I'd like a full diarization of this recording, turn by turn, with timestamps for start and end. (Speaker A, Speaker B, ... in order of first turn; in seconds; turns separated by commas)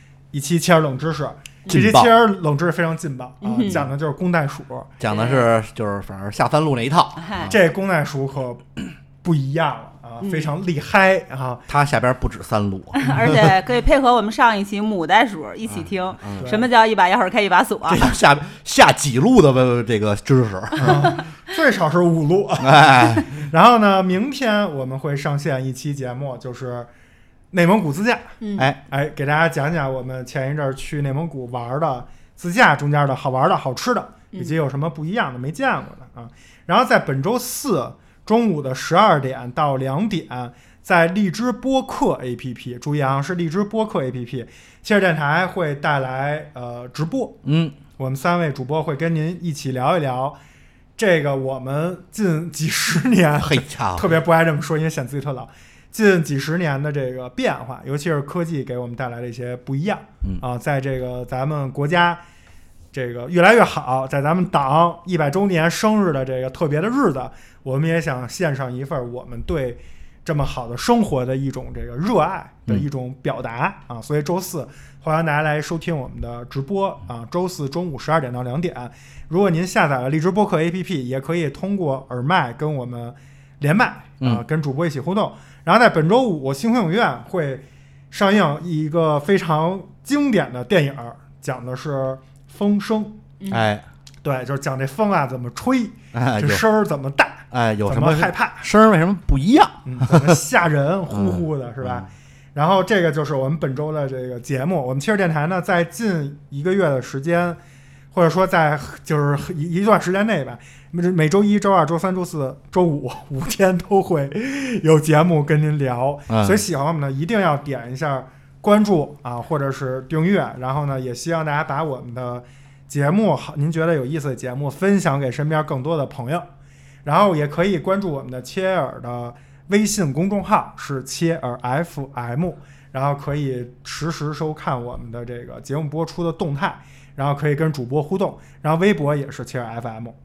Speaker A: 0.3-4.9, Speaker B: 1.7-2.1, Speaker C: 3.4-3.9, Speaker B: 5.0-7.6, Speaker C: 5.1-5.5, Speaker C: 7.2-7.5, Speaker A: 7.5-11.6, Speaker C: 10.2-10.5, Speaker B: 11.7-13.1, Speaker C: 13.0-18.1, Speaker B: 15.7-16.5, Speaker A: 16.4-16.7, Speaker B: 17.9-21.1, Speaker A: 20.8-26.9, Speaker B: 22.6-23.3, Speaker A: 27.5-28.3, Speaker C: 28.4-28.7, Speaker A: 28.9-47.4, Speaker B: 47.4-47.8, Speaker A: 48.0-50.4, Speaker A: 51.0-62.2, Speaker B: 53.4-54.1, Speaker A: 62.9-93.2, Speaker B: 93.5-93.9, Speaker A: 94.2-98.7, Speaker B: 96.1-96.7, Speaker B: 97.5-100.4, Speaker A: 99.8-107.6, Speaker B: 101.1-102.1, Speaker A: 108.1-126.5, Speaker B: 116.3-116.6, Speaker A: 127.0-140.2